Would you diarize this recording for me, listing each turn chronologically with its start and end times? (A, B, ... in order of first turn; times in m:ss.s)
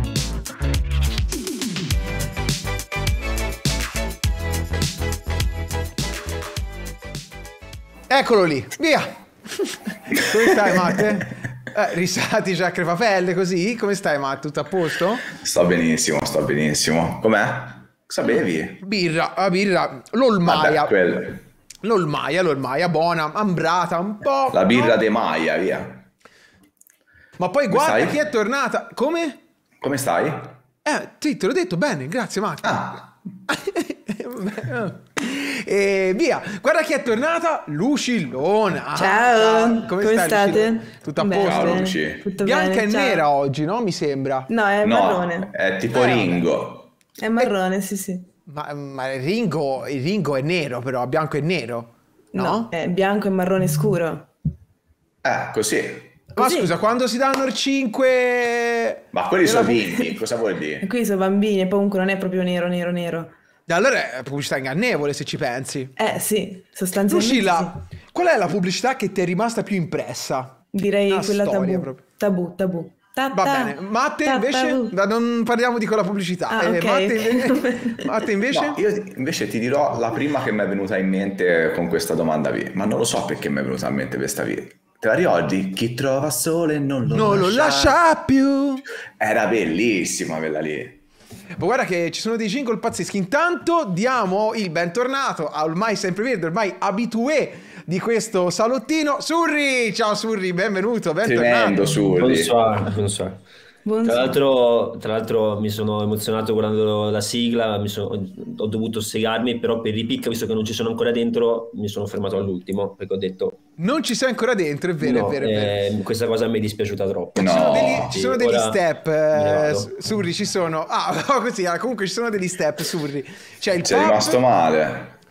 0:08.1-0:15.2 A
0:15.3-0:18.8 B
0:18.8-0:20.9 A
0:20.4-0:21.4 B
0:21.8-0:25.0 A
0:24.5-0:26.0 B
0:27.4-0:29.4 A
0:27.7-0:28.2 B
0:29.8-0:30.6 B
0:30.8-0:44.5 A
0:32.6-0:33.0 B
0:38.9-0:43.2 C
0:41.4-0:42.2 B
0:44.5-0:46.4 C
0:44.8-0:46.8 B
0:47.2-0:48.3 C
0:48.5-0:52.7 A
0:52.3-0:54.3 C
0:55.2-0:56.1 B
0:56.4-1:00.0 A
0:56.4-0:56.7 C
0:59.1-1:00.8 B
1:00.8-1:03.3 C
1:03.7-1:05.9 A
1:06.0-1:07.7 C
1:07.1-1:12.0 A
1:10.7-1:14.9 C
1:13.3-1:18.8 A
1:16.5-1:18.0 C
1:18.5-1:28.0 B
1:27.1-1:28.8 A
1:29.2-1:31.0 B
1:31.6-1:42.0 A
1:41.2-1:42.6 B
1:42.1-1:43.4 D
1:43.8-1:44.4 C
1:44.0-1:53.6 D
1:53.8-1:55.8 A
1:55.0-1:58.8 D
1:57.4-1:58.1 B
1:57.4-2:04.4 A
1:59.3-1:59.9 D
2:03.8-2:05.1 B